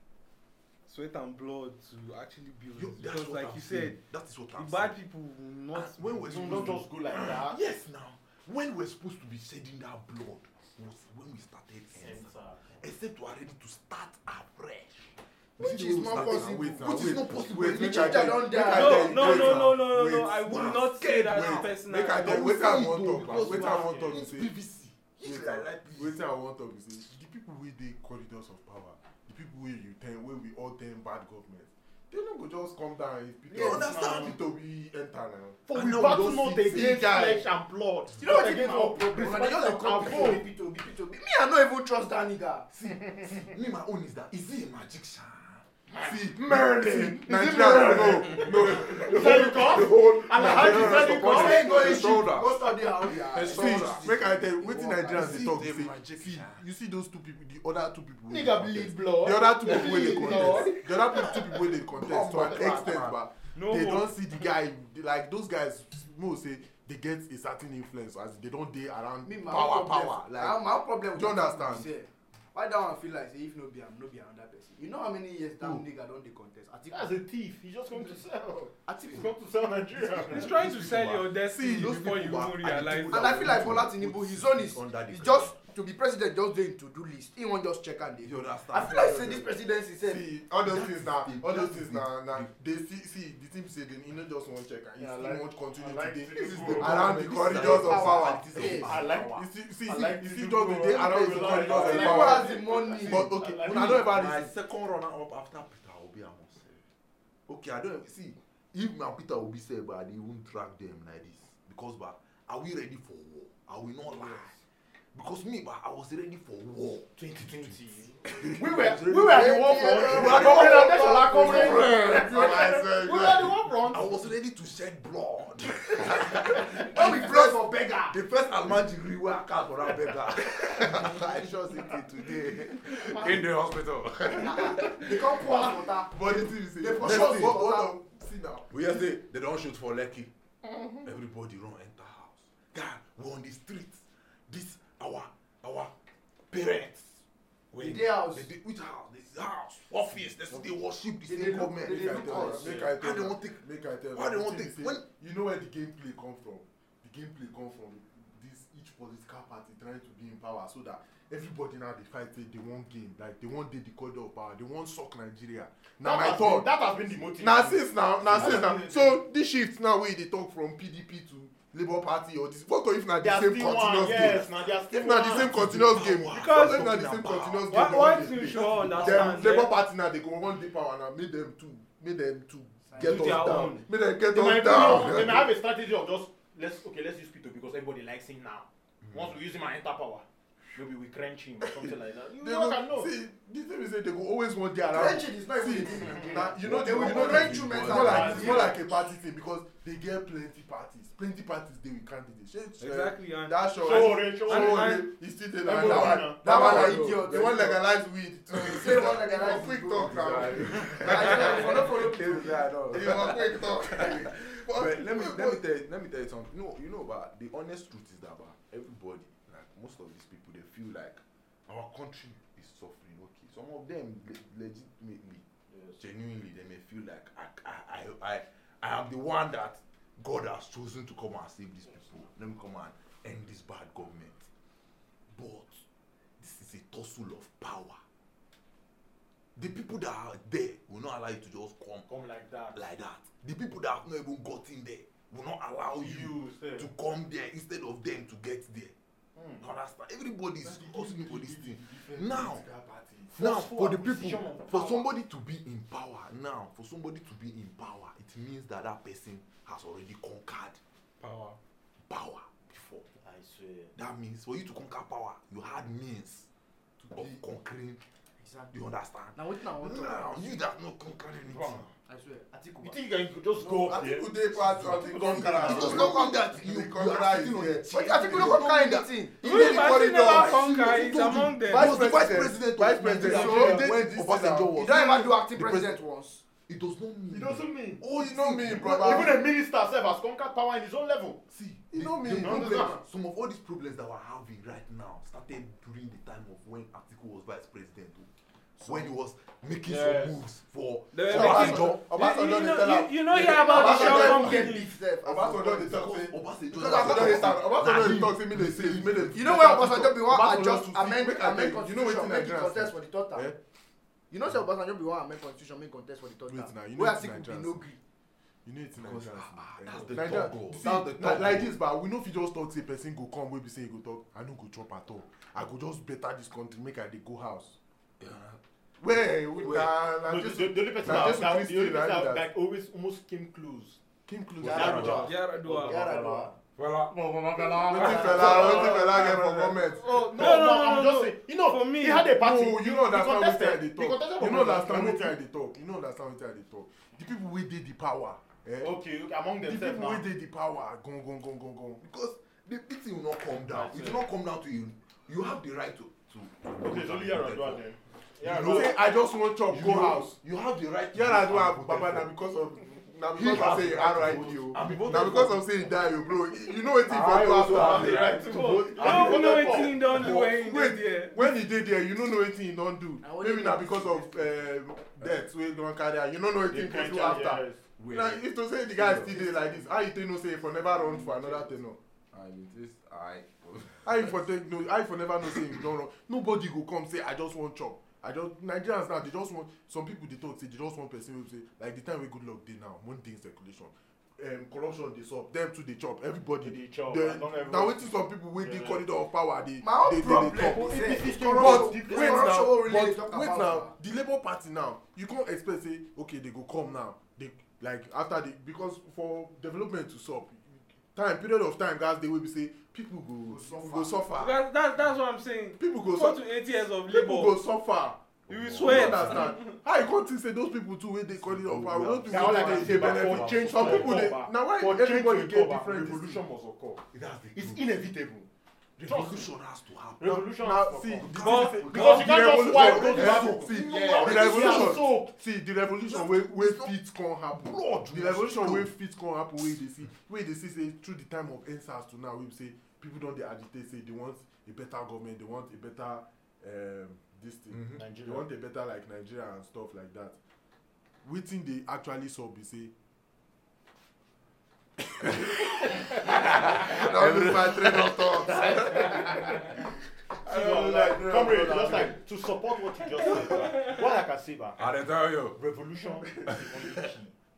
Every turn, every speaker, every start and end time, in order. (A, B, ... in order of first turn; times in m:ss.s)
0:00.8-0:04.0 A
0:02.7-0:05.0 B
0:04.5-0:06.8 A
0:05.7-0:19.8 B
0:06.3-0:07.6 C
0:11.9-0:12.8 C
0:15.6-0:19.6 D
0:15.6-0:20.6 E
0:18.7-0:22.5 A
0:20.4-0:26.2 B
0:21.3-0:24.5 E
0:23.2-0:24.2 C
0:25.2-0:35.6 E
0:33.5-0:34.4 C
0:33.5-0:34.4 B
0:35.7-0:40.4 C
0:35.7-0:37.0 B
0:36.6-0:37.4 E
0:38.2-0:42.7 D
0:42.7-0:45.6 B
0:45.9-0:46.2 C
0:46.0-0:52.4 E
0:47.2-0:48.4 D
0:47.6-0:51.7 C
0:48.4-0:54.2 B
0:50.5-0:55.6 D
0:53.4-1:10.6 E
0:55.1-0:56.6 B
0:58.3-1:00.8 D
0:59.7-1:00.6 C
1:00.0-1:00.6 B
1:01.9-1:03.2 B
1:03.5-1:04.2 A
1:09.2-1:17.2 D
1:11.1-1:11.9 E
1:16.9-1:20.5 C
1:18.8-1:19.3 D
1:20.0-1:25.6 B
1:20.3-1:23.4 A
1:21.4-1:22.0 E
1:23.1-1:30.3 D
1:28.2-1:29.5 B
1:30.0-1:42.5 E
1:30.6-1:32.5 B
1:35.0-1:35.5 D
1:35.8-1:37.1 C
1:36.3-1:38.9 D
1:36.4-1:39.3 B
1:38.5-1:44.1 C
1:41.0-1:46.8 B
1:41.7-1:43.3 D
1:43.0-1:44.5 E
1:47.5-1:54.5 B
1:54.1-1:54.4 C
1:55.1-2:02.0 B
1:57.2-2:04.1 C
1:59.3-2:02.0 D
2:00.1-2:03.6 E
2:03.8-2:15.2 B
2:06.8-2:08.2 D
2:14.4-2:17.9 D
2:16.1-2:18.7 E
2:17.0-2:17.7 B
2:18.7-2:20.3 B
2:21.0-2:25.9 B
2:26.5-2:33.6 B
2:27.8-2:28.5 D
2:31.2-2:32.8 D
2:31.5-2:46.7 E
2:34.1-2:35.0 B
2:46.0-2:49.2 C
2:47.3-3:05.5 E
2:53.2-2:55.6 C
2:55.3-2:57.7 B
2:56.3-2:57.0 A
2:57.7-2:59.8 A
2:58.3-2:59.6 B
3:02.9-3:03.3 D
3:03.0-3:03.8 B
3:03.0-3:03.8 A
3:04.3-3:13.1 C
3:11.7-3:35.6 E
3:14.9-3:18.8 D
3:16.1-3:16.4 C
3:17.0-3:18.4 B
3:17.8-3:18.7 C
3:22.8-3:25.1 A
3:23.8-3:25.0 C
3:25.6-3:26.8 C
3:25.6-3:27.8 D
3:26.5-3:27.3 B
3:28.5-3:33.4 D
3:30.0-3:45.4 B
3:45.7-3:46.0 C
3:46.0-3:54.5 B
3:55.3-3:55.8 B
3:56.4-3:58.0 B
3:59.6-4:02.1 B
4:02.1-4:02.8 C
4:02.7-4:08.9 B
4:06.0-4:06.9 C
4:09.4-4:09.7 C
4:09.6-4:12.6 B
4:10.6-4:13.3 E
4:13.3-4:15.1 C
4:13.4-4:20.8 B
4:21.2-4:21.6 A
4:22.1-4:23.0 B
4:23.1-4:23.9 C
4:23.9-4:26.5 B
4:27.1-4:27.4 E
4:27.1-4:28.0 B
4:28.4-4:28.8 D
4:28.7-4:31.9 B
4:29.3-4:30.6 D
4:31.4-4:31.9 C
4:32.0-4:33.0 D
4:32.8-4:36.2 C
4:33.6-4:34.1 D
4:33.9-4:38.6 E
4:34.6-4:46.0 B
4:35.4-4:36.5 D
4:37.9-4:39.4 D
4:39.4-4:42.0 A
4:39.4-4:45.7 E
4:43.2-4:43.9 D
4:44.7-4:46.4 D
4:46.7-4:49.4 B
4:47.3-4:48.0 C
4:48.0-4:49.4 E
4:48.7-4:51.4 C
4:51.5-4:58.3 B
4:51.9-4:53.0 E
4:52.3-4:53.0 C
4:58.8-5:02.0 B
4:59.9-5:00.3 C
5:01.1-5:04.9 A
5:01.3-5:13.6 E
5:03.3-5:06.0 D
5:05.9-5:09.4 B
5:06.7-5:07.5 D
5:09.3-5:13.5 D
5:14.3-5:18.0 D
5:16.5-5:17.8 E
5:18.6-5:27.8 E
5:19.0-5:21.8 B
5:28.2-5:28.6 B
5:29.0-5:32.5 E
5:29.6-5:29.9 B
5:30.2-5:34.0 C
5:31.0-5:31.4 B
5:34.3-5:35.3 E
5:34.6-5:36.6 C
5:34.6-5:35.3 B
5:34.7-5:36.5 D
5:35.1-5:36.0 A
5:36.8-5:37.1 B
5:37.1-5:39.2 D
5:37.5-5:45.4 C
5:37.8-5:40.4 E
5:38.1-5:38.9 B
5:40.3-5:42.3 A
5:42.3-5:48.9 E
5:48.8-5:50.2 C
5:49.6-5:52.0 E
5:52.0-5:57.8 B
5:53.6-5:54.3 C
5:56.8-5:58.9 C
5:58.4-5:58.9 B
5:58.4-6:00.4 E
5:59.7-6:02.3 B
6:01.1-6:22.0 E
6:03.3-6:05.6 B
6:03.4-6:05.4 C
6:07.0-6:10.5 B
6:07.5-6:10.0 C
6:08.8-6:11.5 A
6:13.2-6:14.6 D
6:16.7-6:18.0 C
6:18.0-6:18.3 B
6:19.0-6:19.5 B
6:22.3-6:24.3 B
6:24.0-6:54.6 E
6:36.6-6:39.0 C
6:39.8-6:43.9 D
6:40.4-6:42.7 C
6:53.5-6:54.2 D
6:54.4-6:57.6 A
6:55.8-6:56.5 E
6:57.0-6:58.2 E
6:58.5-6:59.5 B
6:58.5-6:59.8 A
6:58.8-7:06.4 E
7:01.4-7:04.3 B
7:02.2-7:07.0 C
7:07.1-7:07.8 B
7:07.5-7:08.5 C
7:09.0-7:10.4 B
7:09.0-7:09.5 C
7:10.2-7:15.3 C
7:10.5-7:30.4 E
7:11.2-7:15.1 B
7:11.3-7:12.1 A
7:16.1-7:16.9 B
7:17.5-7:18.9 B
7:27.9-7:28.4 C
7:31.2-7:32.9 E
7:35.2-7:35.5 B
7:36.2-7:39.1 B
7:36.2-7:39.7 E
7:38.5-7:39.5 C
7:40.4-7:44.8 C
7:40.5-7:42.1 E
7:41.3-7:42.0 B
7:44.8-7:45.6 B
7:45.6-7:47.3 C
7:46.3-7:46.6 B